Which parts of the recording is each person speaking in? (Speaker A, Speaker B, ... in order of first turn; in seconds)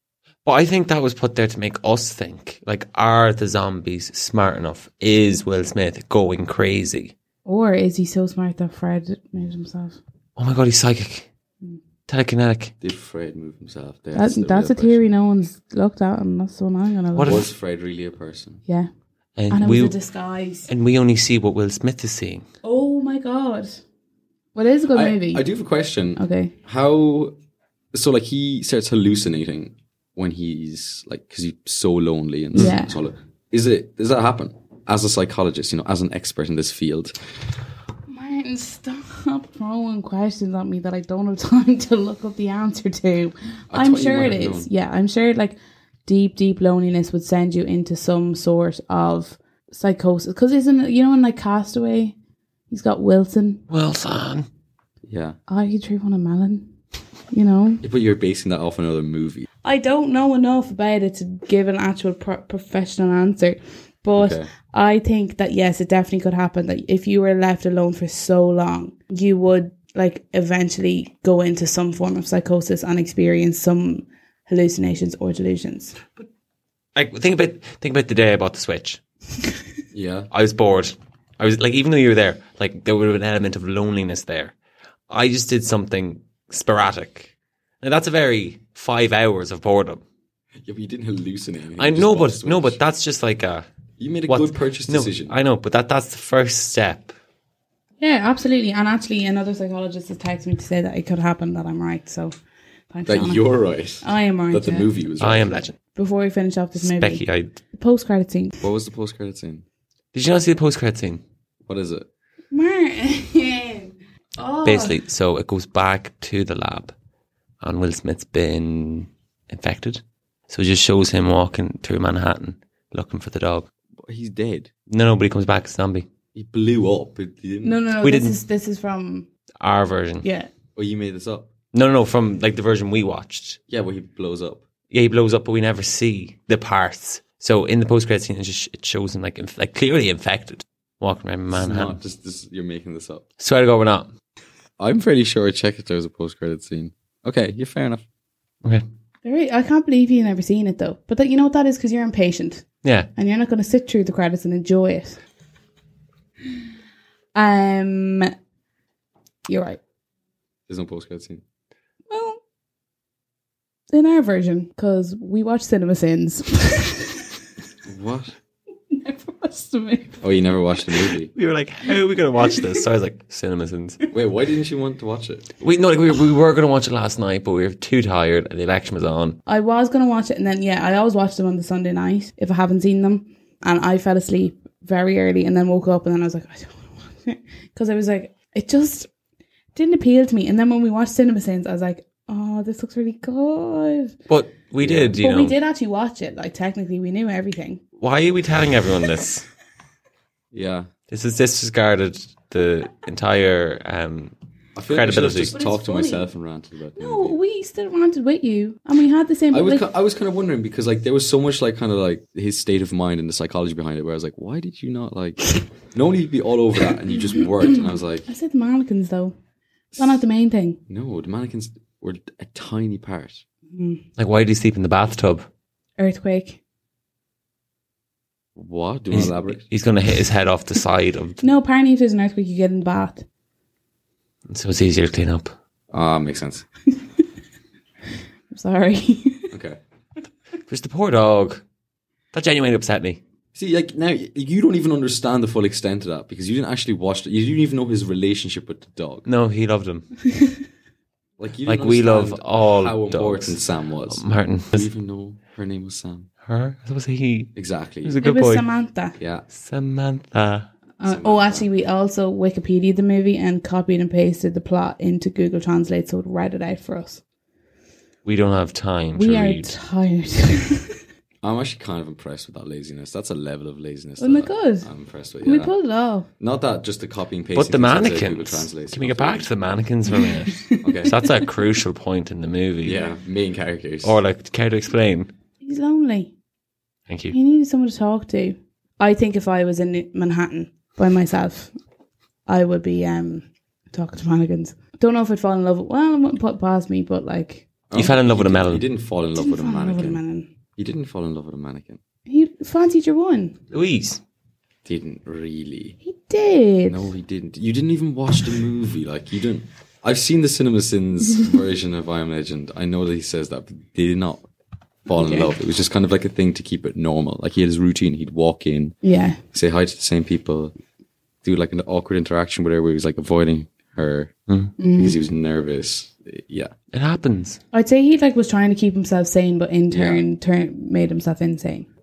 Speaker A: 0.4-7.1, 10.3-11.3, 12.1-12.7, 17.1-17.4, 19.4-19.9, 20.7-22.4, 53.7-54.5, 76.9-79.0, 80.3-84.5, 85.1-90.0, 91.8-93.7, 94.3-97.1, 105.2-105.8, 106.8-107.5, 110.1-111.2, 114.6-116.9, 117.6-123.7, 124.9-126.1, 128.0-128.3, 129.6-130.2, 131.7-133.6, 134.9-141.9, 143.4-144.1, 152.8-153.1, 171.3-174.0, 175.6-179.4, 194.3-195.6, 198.0-199.4, 201.1-204.3, 204.9-205.5, 224.2-225.5, 229.1-231.4, 234.5-235.5, 240.7-241.6, 242.3-243.2, 249.2-250.1, 251.7-254.9, 256.4-258.6, 259.5-260.7, 268.2-269.8, 277.5-283.0, 284.0-285.3, 287.1-287.4, 297.9-298.8, 303.7-304.2, 315.2-315.5, 326.9-327.6
Speaker B: 7.4-10.0, 14.1-17.4, 19.5-20.7, 22.6-23.8, 24.5-25.4, 26.2-26.5, 32.5-32.9, 38.1-52.1, 52.7-53.6, 55.5-56.7, 57.3-57.8, 59.6-76.0, 98.0-102.3, 102.9-103.5, 104.0-104.9, 105.9-108.6, 112.5-115.0, 127.6-129.3, 130.2-130.5, 149.2-155.2, 157.3-158.3, 159.5-159.8, 162.1-162.4, 163.9-167.2, 168.9-170.2, 172.5-172.8, 179.4-189.1, 189.7-194.2, 195.2-197.8, 205.5-206.3, 206.9-209.8, 217.4-219.3, 219.9-220.8, 223.7-224.0, 226.0-226.6, 231.4-233.2, 238.5-239.5, 258.2-259.1, 261.0-267.2, 269.1-271.0, 274.2-274.9, 275.4-276.3, 280.1-280.8, 285.6-286.3, 287.3-291.7, 292.5-297.7, 299.4-300.5, 302.2-303.6, 306.0-307.1, 319.0-319.4, 324.8-325.2, 327.7-331.9
Speaker C: 12.8-15.0, 17.2-18.6, 24.9-27.3, 27.9-37.1, 43.7-44.7, 55.1-55.4, 57.8-59.5, 64.2-64.5, 79.9-80.3, 90.6-92.8, 94.0-95.3, 103.0-105.7, 108.6-109.6, 111.7-112.1, 124.0-124.7, 126.3-127.8, 130.8-131.5, 133.7-134.6, 141.5-143.2, 144.8-148.0, 160.7-161.4, 167.8-168.3, 170.2-171.3, 174.1-175.5, 194.8-195.1, 200.5-200.9, 204.8-207.3, 209.5-218.3, 220.9-223.4, 228.6-229.6, 235.9-236.6, 239.5-239.8, 243.5-249.2, 251.4-256.3, 257.6-258.2, 259.2-259.4, 261.0-261.6, 271.4-275.7, 276.4-279.5, 280.8-281.1, 282.8-284.2, 297.9-300.2, 300.8-302.0, 304.8-305.9, 306.9-314.5, 315.1-318.9, 319.5-320.7, 321.4-324.3, 325.0-326.7, 329.9-330.2